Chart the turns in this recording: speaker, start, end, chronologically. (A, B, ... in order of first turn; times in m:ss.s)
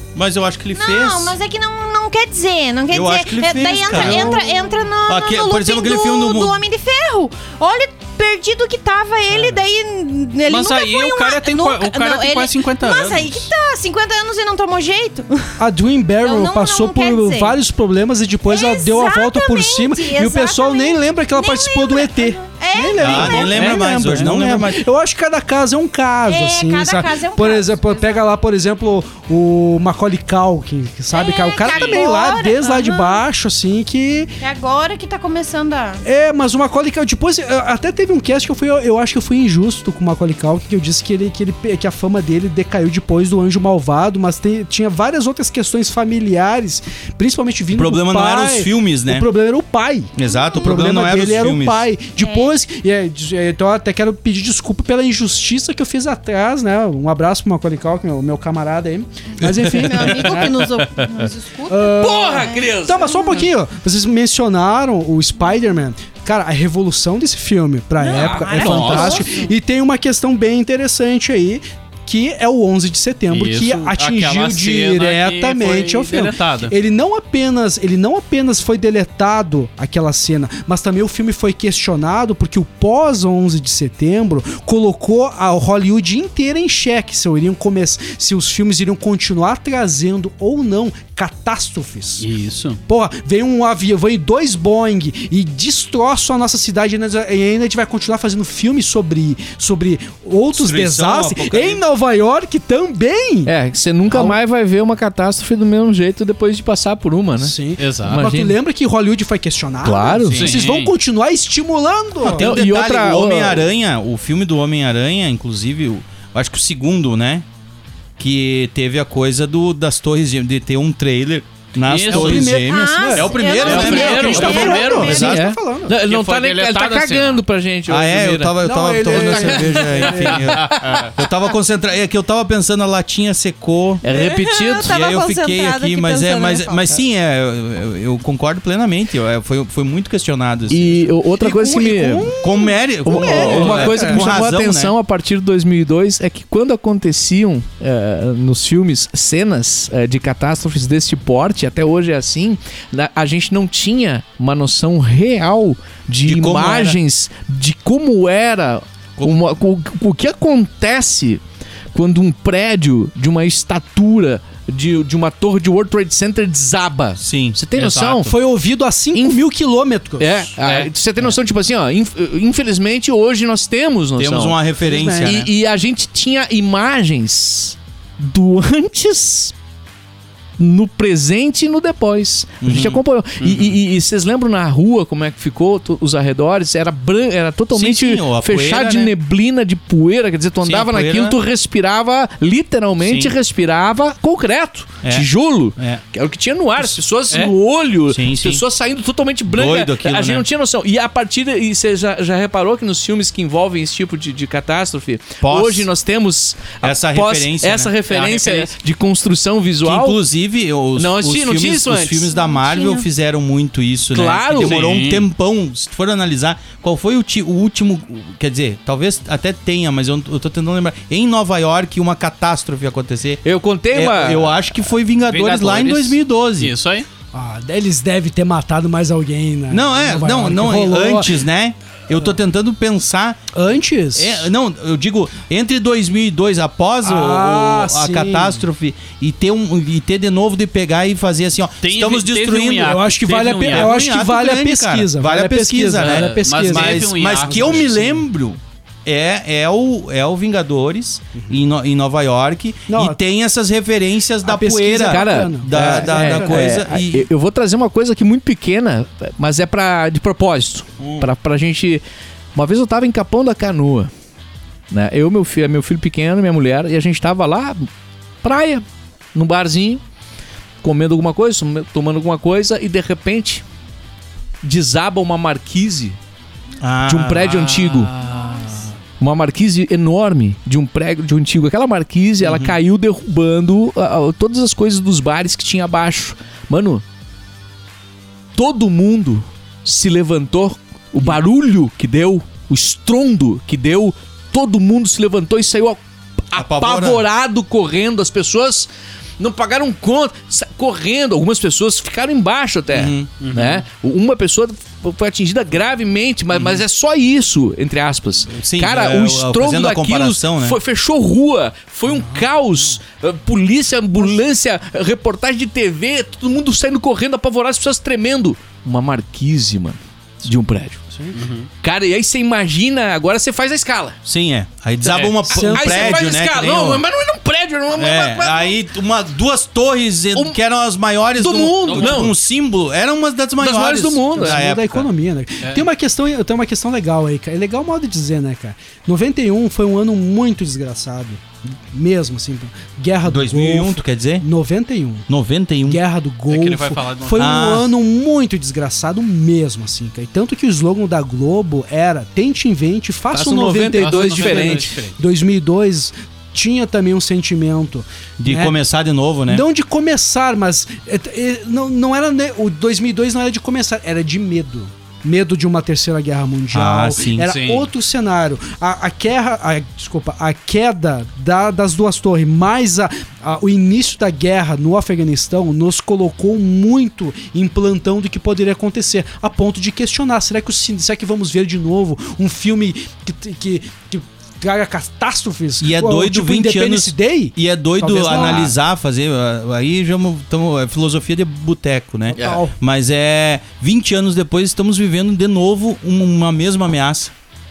0:00.1-0:01.4 A
0:00.7-0:15.5 B
0:02.9-0:04.4 A
0:04.0-0:04.3 C
0:05.0-0:06.6 A
0:10.5-0:13.5 C
0:15.6-0:34.3 D
0:16.2-0:17.6 B
0:18.5-0:23.7 B
0:23.0-0:24.8 A
0:23.6-0:24.3 C
0:26.2-0:28.2 B
0:31.1-0:33.2 B
0:31.7-0:32.1 C
0:34.4-0:36.0 B
0:36.0-1:00.6 D
0:47.7-0:49.3 A
0:50.1-0:51.9 A
0:50.2-0:50.7 B
0:52.2-0:52.5 B
0:59.4-1:03.5 B
0:59.4-1:00.4 A
1:01.7-1:32.3 D
1:02.0-1:03.1 E
1:08.0-1:09.5 B
1:08.1-1:08.5 E
1:08.6-1:09.2 C
1:13.3-1:16.7 C
1:32.2-1:32.8 C
1:32.9-1:43.5 D
1:40.5-1:41.8 A
1:43.4-1:48.6 E
1:44.1-1:44.4 D
1:47.4-1:52.4 D
1:47.8-1:48.2 C
1:49.8-1:50.6 E
1:50.3-1:50.9 C
1:52.2-1:53.7 E
1:52.2-1:57.4 A
1:58.2-2:05.4 A
2:01.9-2:02.6 C
2:02.1-2:05.9 D
2:02.6-2:05.2 B
2:03.2-2:05.3 C
2:03.6-2:11.1 E
2:06.0-2:07.4 C
2:07.9-2:14.0 A
2:08.6-2:10.6 D
2:10.4-2:11.1 C
2:14.0-2:15.0 E
2:14.1-2:16.8 B
2:14.8-2:21.1 A
2:20.7-2:22.3 E
2:21.4-2:24.2 D
2:22.4-2:24.9 A
2:23.0-2:41.4 E
2:36.2-2:37.0 A
2:39.2-2:39.4 A
2:41.9-2:48.3 E
2:47.2-2:48.3 A
2:48.3-2:50.5 D
2:49.1-2:49.4 E
2:50.2-2:54.6 E
2:54.2-2:55.5 A
2:54.8-2:55.4 D
2:55.2-2:59.5 E
3:00.6-3:30.2 E
3:02.6-3:03.0 A
3:03.4-3:03.7 C
3:07.7-3:09.1 A
3:10.6-3:11.4 A
3:13.0-3:13.3 A
3:15.0-3:16.0 A
3:18.1-3:18.6 A
3:19.5-3:20.4 A
3:25.4-3:25.9 A
3:26.8-3:27.9 A
3:28.0-3:28.7 C
3:29.8-3:46.7 A
3:31.0-3:32.3 E
3:32.3-3:33.0 B
3:34.1-3:34.8 E
3:34.5-3:35.3 C
3:43.4-3:44.6 E
3:45.2-3:47.1 C
3:47.3-3:51.4 D
3:49.7-3:53.4 A
3:53.5-3:54.5 D
3:54.1-4:03.0 A
3:57.0-3:58.6 D
4:01.8-4:03.9 C
4:02.8-4:08.2 D
4:03.6-4:17.3 A
4:06.0-4:07.9 C
4:12.9-4:13.2 D
4:14.4-4:16.6 D
4:15.0-4:22.0 E
4:21.0-4:21.3 A
4:22.5-4:24.1 E
4:24.9-4:27.9 E
4:28.4-4:30.0 E
4:30.8-4:33.6 E
4:34.6-4:36.2 E
4:36.8-4:38.0 A
4:37.0-4:38.1 E
4:37.7-4:38.8 C
4:39.2-4:47.0 E
4:42.4-4:42.8 A
4:48.6-5:21.1 E
4:56.5-4:57.2 A
5:02.9-5:03.3 A
5:03.4-5:03.8 C
5:06.5-5:06.8 A
5:08.5-5:10.8 A
5:12.1-5:12.9 D
5:21.3-5:21.7 C
5:21.8-5:24.2 E
5:24.2-5:27.0 A
5:25.0-5:25.4 C
5:25.5-5:26.3 D
5:25.5-5:28.8 E
5:27.9-5:35.1 A
5:31.4-5:32.3 E
5:31.8-5:32.3 C
5:33.6-5:34.6 E
5:34.3-5:45.3 D
5:43.2-5:44.4 A
5:45.3-5:46.0 A
5:45.8-5:58.8 D
5:46.5-5:47.8 C
5:47.4-5:47.9 A
5:53.3-5:55.0 E
5:54.0-5:55.2 C
5:58.4-5:59.6 A
5:59.5-6:28.7 D
6:06.7-6:07.5 A
6:07.4-6:07.9 C
6:25.8-6:37.3 A
6:32.3-6:32.7 D